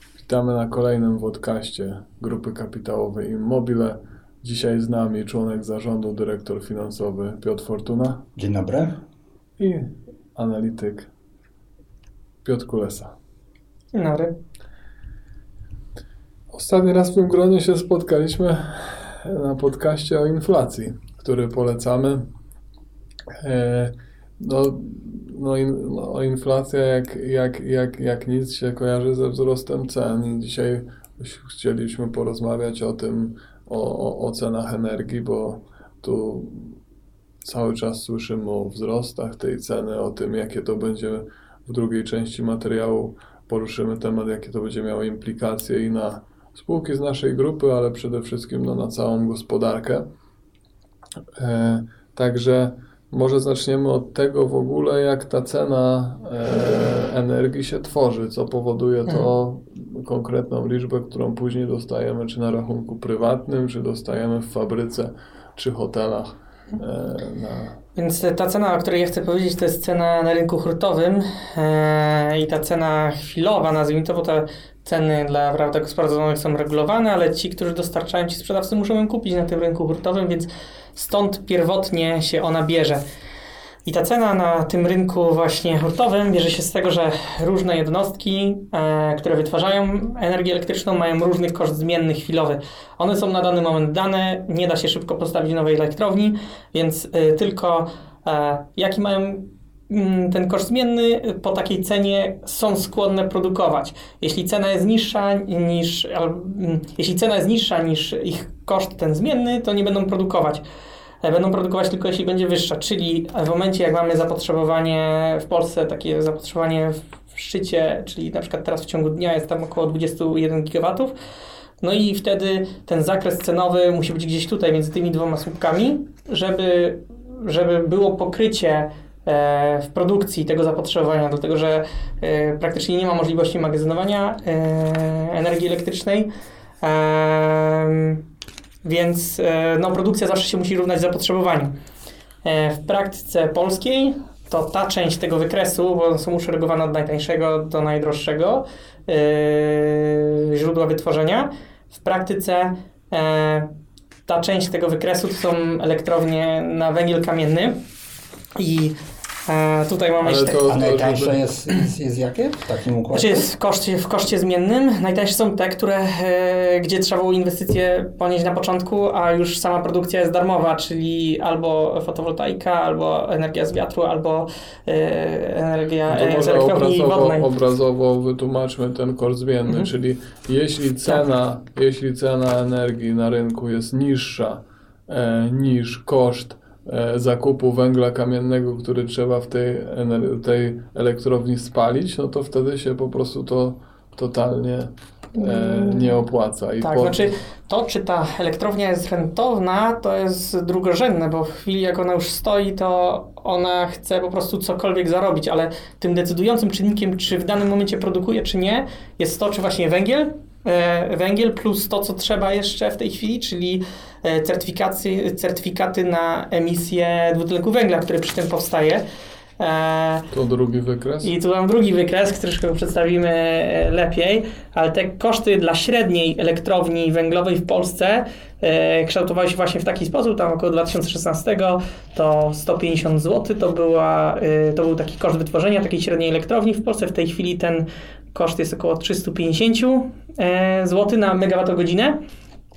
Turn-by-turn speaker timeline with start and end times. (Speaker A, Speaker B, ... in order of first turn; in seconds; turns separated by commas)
Speaker A: 0.2-8.2, Speaker B: 8.3-9.0, Speaker A: 9.6-11.1, Speaker A: 12.4-13.1, Speaker C: 13.9-14.4, Speaker A: 16.5-22.3, Speaker A: 23.4-36.8, Speaker A: 37.4-50.0, Speaker A: 51.4-67.8, Speaker C: 68.0-83.0, Speaker C: 83.8-110.6, Speaker C: 111.2-121.1, Speaker C: 121.8-136.3, Speaker C: 136.8-138.2, Speaker C: 138.8-141.7, Speaker C: 142.4-153.7, Speaker C: 154.3-157.8, Speaker C: 158.6-160.7, Speaker A: 160.2-161.4, Speaker B: 160.6-163.5, Speaker C: 163.1-177.5, Speaker A: 176.1-197.3, Speaker C: 195.3-196.2, Speaker C: 196.8-219.0, Speaker C: 219.6-220.3, Speaker A: 220.3-221.3, Speaker C: 221.2-242.2